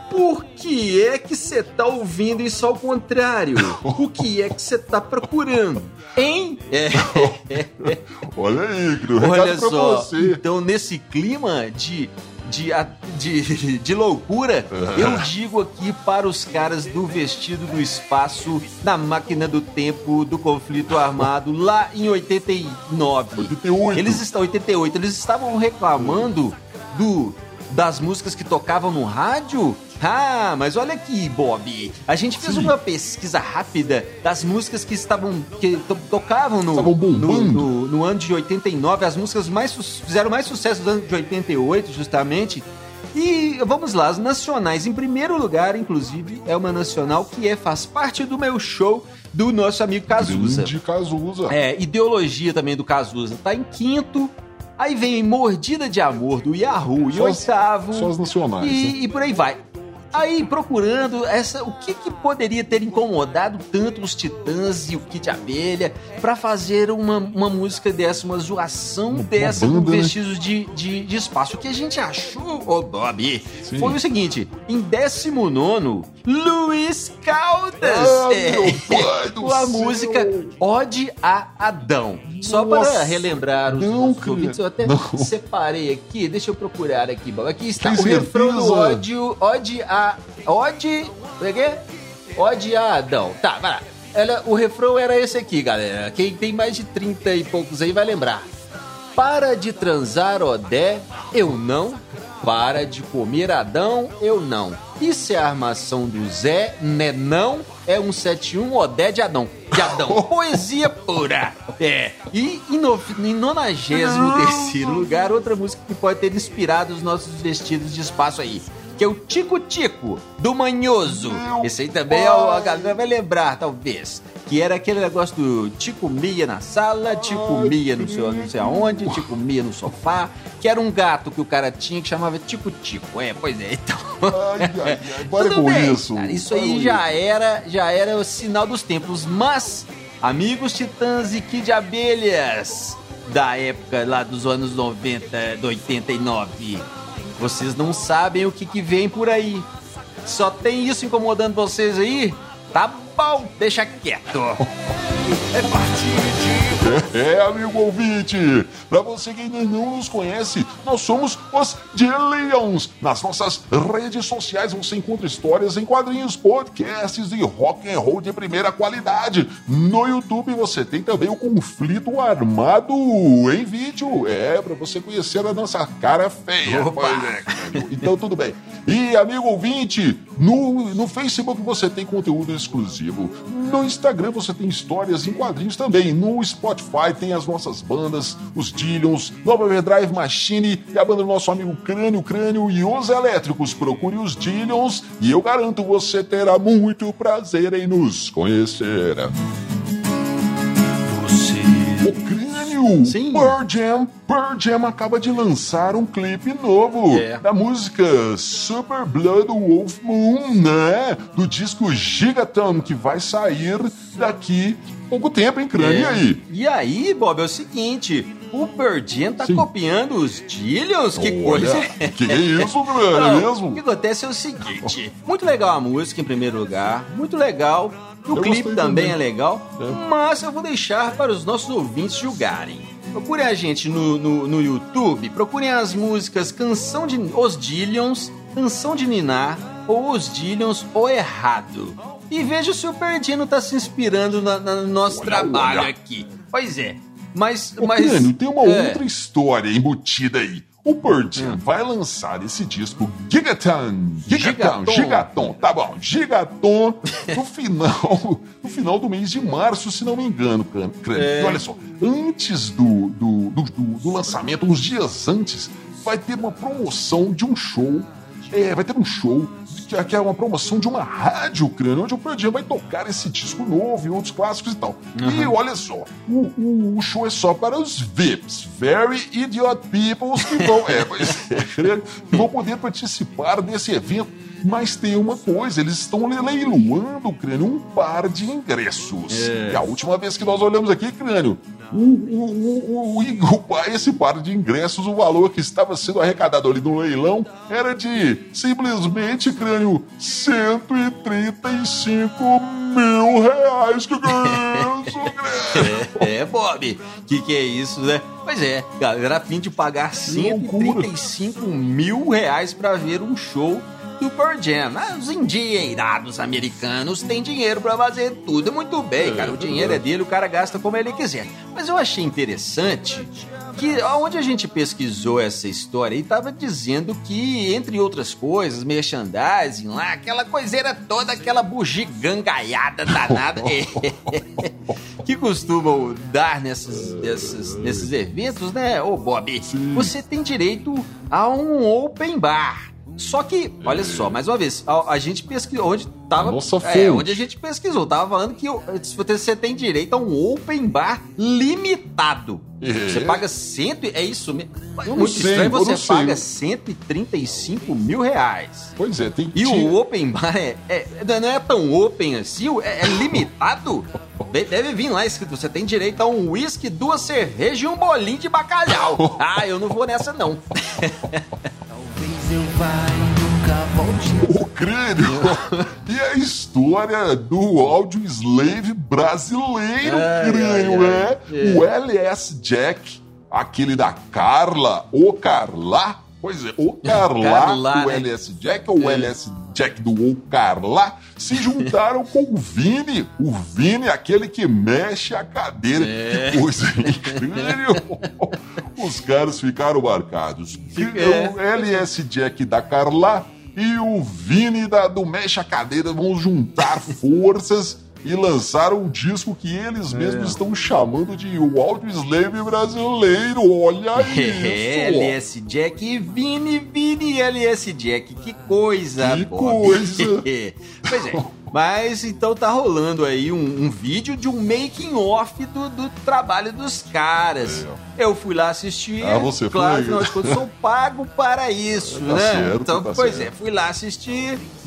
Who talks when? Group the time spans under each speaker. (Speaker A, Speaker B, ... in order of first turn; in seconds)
Speaker A: 0.1-8.0, 9.2-50.7, 51.5-91.8, 92.4-98.5, 99.2-149.7, 150.2-154.7, 155.5-156.9, 176.6-178.0, 201.1-202.1, 203.0-203.6, 207.1-207.4, 215.8-249.0, 254.3-255.3, 261.1-261.6, 275.1-275.6, 280.4-281.4, 289.3-289.9, 304.3-304.9, 305.7-358.9, 359.5-371.6, 375.3-375.9, 380.0-381.9, 387.1-388.3, 389.0-389.3, 396.0-398.0, 401.0-401.6, 410.1-410.6, 414.2-434.6
Speaker B: 3.6-4.1, 7.0-10.4, 14.7-15.3, 23.4-24.2, 26.0-26.3, 32.4-32.8, 36.7-37.7, 50.2-51.6, 57.1-59.0, 69.1-70.2, 73.6-74.0, 77.8-80.5, 82.4-85.3, 87.8-89.0, 109.7-110.6, 113.9-115.3, 121.0-123.0, 127.1-129.3, 134.3-137.1, 156.7-199.3, 202.0-216.4, 219.4-219.7, 221.2-223.8, 228.3-229.2, 245.1-245.9, 247.8-306.3, 310.3-311.1, 319.2-320.0, 333.1-334.7, 336.9-338.1, 339.6-340.1, 343.8-344.4, 346.4-347.4, 352.8-353.4, 355.1-356.4, 359.0-359.9, 368.9-369.4, 374.4-415.4, 419.2-420.5, 421.1-421.5, 427.6-428.0, 429.2-430.6, 432.1-433.5
Speaker C: 371.9-374.7